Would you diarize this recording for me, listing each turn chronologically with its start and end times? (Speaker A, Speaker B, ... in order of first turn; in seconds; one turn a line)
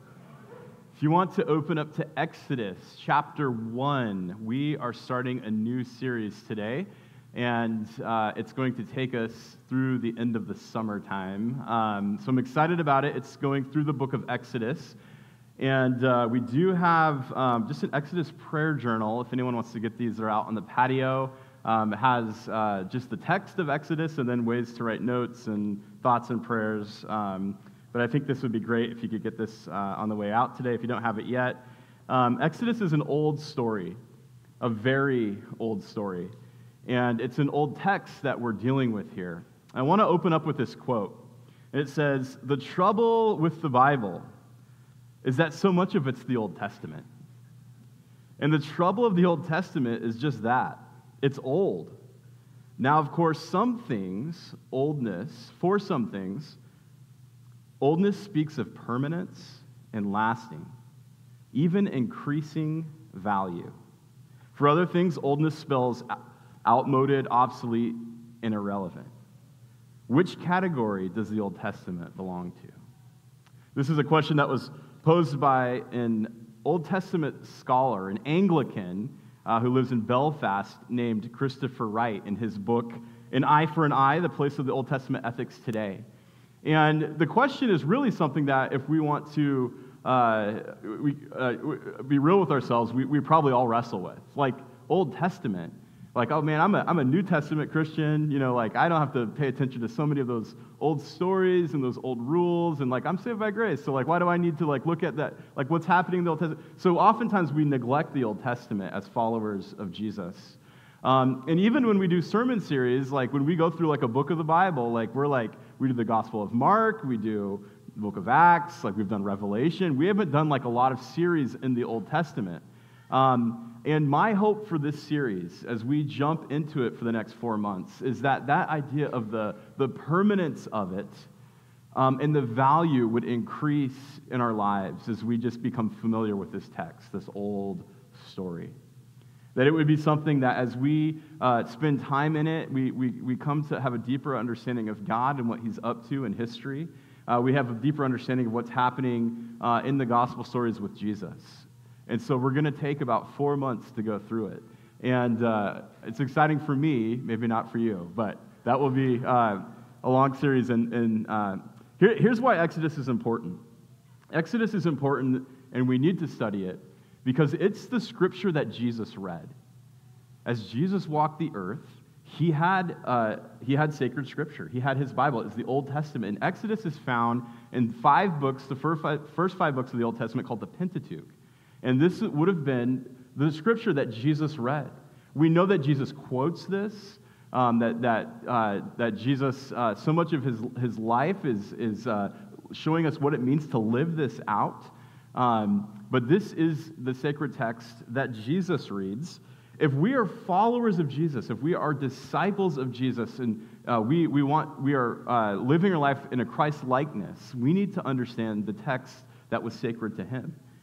Speaker A: 0.9-15.0
Speaker A: 15.6-34.0
Speaker A: 34.6-36.3
Speaker A: 36.9-44.2
Speaker A: 45.2-47.1
Speaker A: 48.4-52.0
Speaker A: 52.8-56.6
Speaker A: 57.8-60.7
Speaker A: 61.5-63.7
Speaker A: 64.5-66.1
Speaker A: 66.6-69.1
Speaker A: 70.1-72.8
Speaker A: 73.7-86.0
Speaker A: 86.6-131.3
Speaker A: 131.9-138.7
Speaker A: 139.5-163.6
Speaker A: 164.3-169.5
Speaker A: 170.4-210.6